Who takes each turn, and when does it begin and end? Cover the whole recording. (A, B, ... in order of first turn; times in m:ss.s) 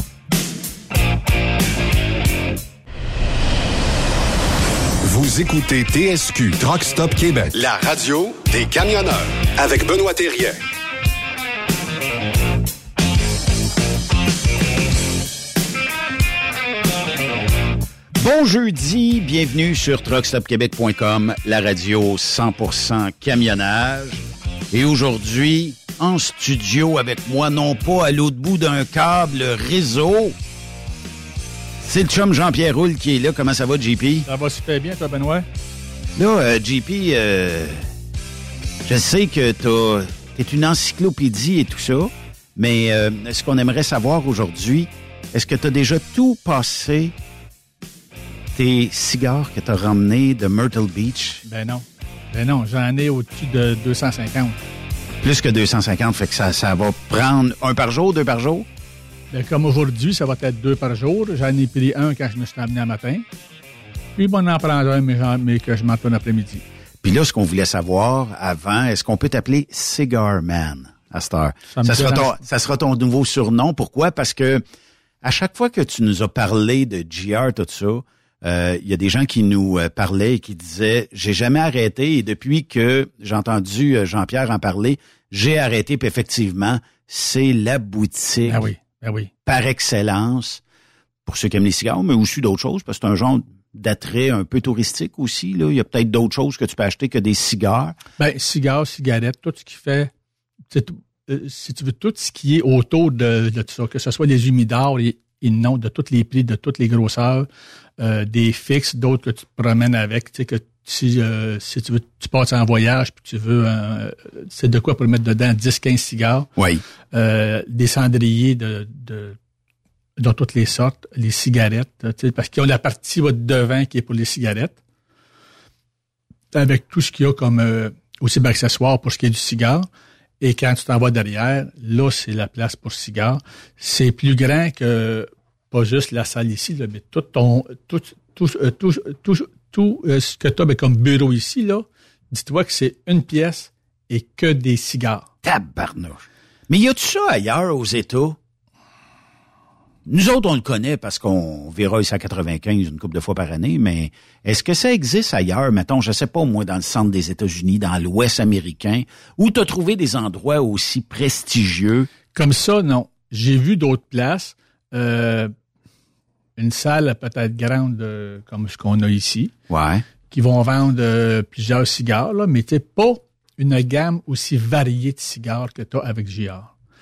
0:05.0-0:10.6 A
0:18.1-0:30.4 B
0:31.8-0:34.3 B
0:34.2-0:35.5 C
0:36.2-0:37.8 B
0:38.8-0:47.2 B
0:48.5-0:51.4 B
0:51.4-0:54.6 C
0:55.2-0:58.7 B
0:59.3-1:03.2 C
1:04.2-1:06.6 C
1:07.0-1:14.6 B
1:11.7-1:12.3 C
1:15.2-1:28.7 B
1:28.4-1:29.3 C
1:29.4-1:30.6 B
1:31.2-1:38.0 B
1:38.2-1:40.1 C
1:40.7-1:56.5 C
1:56.6-1:56.8 B
1:57.1-1:59.4 C
2:00.2-2:04.8 C
2:06.5-2:09.9 C
2:10.4-2:25.2 C
2:25.4-2:28.4 B
2:30.0-2:42.1 B
2:42.3-2:45.5 C
2:46.6-2:49.5 C
2:49.7-2:50.0 B
2:50.3-2:56.7 C